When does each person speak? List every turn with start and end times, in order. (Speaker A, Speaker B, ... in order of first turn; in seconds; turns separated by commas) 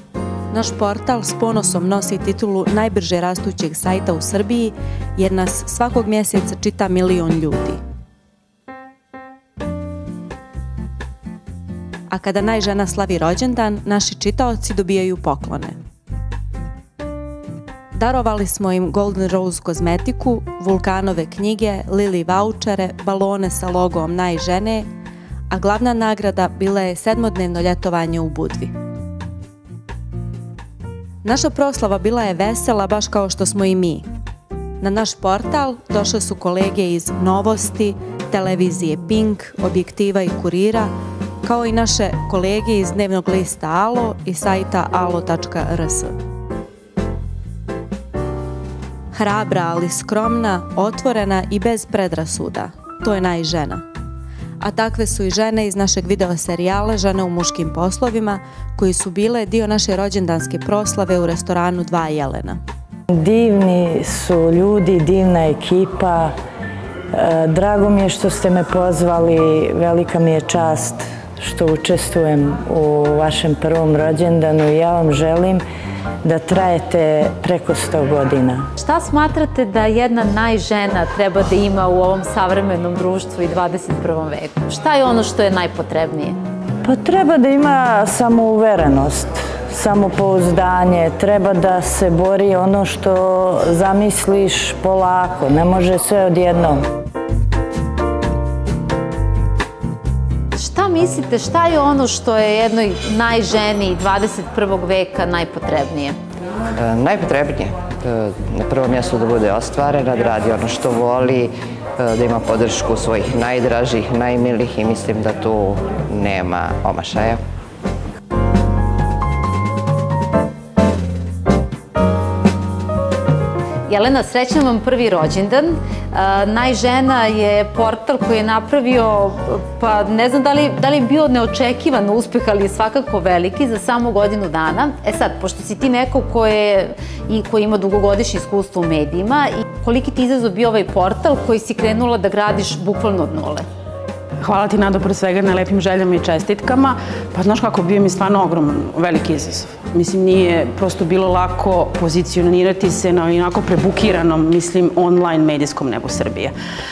Speaker A: 0.5-7.8, Speaker A: 12.1-15.8, Speaker A: 17.9-24.9, Speaker A: 25.5-28.7, Speaker A: 31.2-34.0, Speaker A: 34.8-40.9, Speaker A: 41.4-46.1, Speaker A: 49.1-53.8, Speaker A: 54.6-62.6, Speaker B: 63.2-66.3, Speaker B: 67.1-75.6, Speaker B: 76.2-78.7, Speaker C: 78.8-86.4, Speaker B: 86.8-96.8, Speaker C: 100.5-106.2, Speaker D: 106.9-111.5, Speaker D: 112.0-117.4, Speaker C: 123.9-143.7, Speaker E: 144.4-156.5